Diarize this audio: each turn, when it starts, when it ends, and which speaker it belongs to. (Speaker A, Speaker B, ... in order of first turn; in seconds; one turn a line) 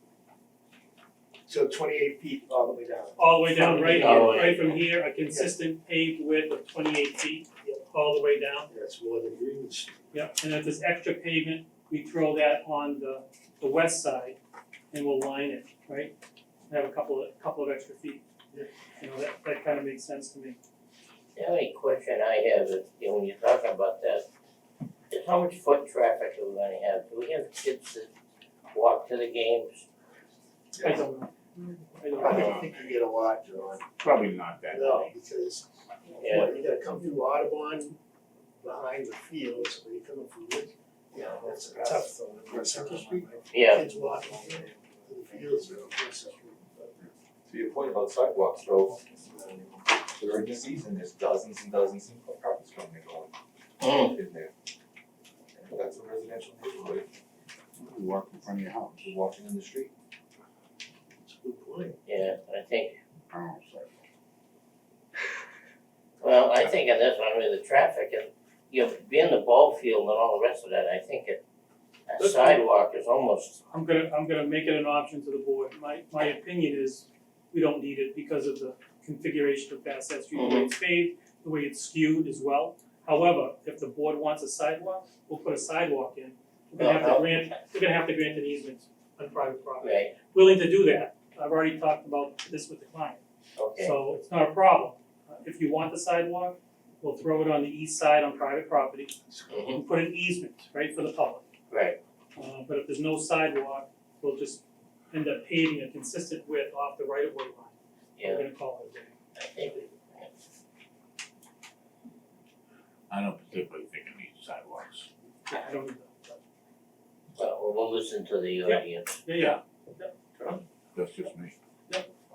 Speaker A: 1.4-4.4
Speaker B: 3.2-8.7
Speaker C: 3.5-4.8
Speaker A: 5.2-5.5
Speaker A: 8.7-9.9
Speaker B: 10.1-14.4
Speaker B: 14.9-16.1
Speaker B: 16.7-18.2
Speaker B: 19.0-20.6
Speaker C: 21.4-24.2
Speaker C: 25.1-28.1
Speaker C: 28.7-29.9
Speaker A: 30.7-31.1
Speaker B: 30.8-31.3
Speaker B: 31.9-32.5
Speaker A: 32.1-33.9
Speaker D: 32.2-33.0
Speaker D: 34.0-35.1
Speaker A: 34.7-38.0
Speaker C: 36.2-36.5
Speaker A: 38.6-47.0
Speaker E: 41.3-42.0
Speaker E: 42.5-43.2
Speaker C: 43.5-43.8
Speaker E: 44.2-45.8
Speaker E: 47.5-53.3
Speaker C: 53.8-54.2
Speaker E: 53.9-54.5
Speaker E: 55.5-57.1
Speaker D: 57.8-59.1
Speaker E: 59.0-59.9
Speaker A: 61.2-62.0
Speaker C: 62.0-63.0
Speaker D: 63.3-64.0
Speaker C: 66.2-71.4
Speaker C: 72.1-73.6
Speaker B: 72.2-72.6
Speaker B: 73.7-93.2
Speaker C: 80.3-80.7
Speaker C: 86.8-87.4
Speaker C: 89.8-90.1
Speaker C: 93.5-94.0
Speaker B: 93.8-99.1
Speaker A: 99.3-99.7
Speaker C: 99.5-99.8
Speaker B: 99.7-101.5
Speaker C: 101.7-102.0
Speaker B: 102.3-109.1
Speaker C: 108.2-108.4
Speaker C: 109.4-110.3
Speaker D: 113.1-115.1
Speaker B: 115.5-116.4
Speaker C: 117.3-119.5
Speaker B: 118.6-120.1
Speaker D: 120.9-121.5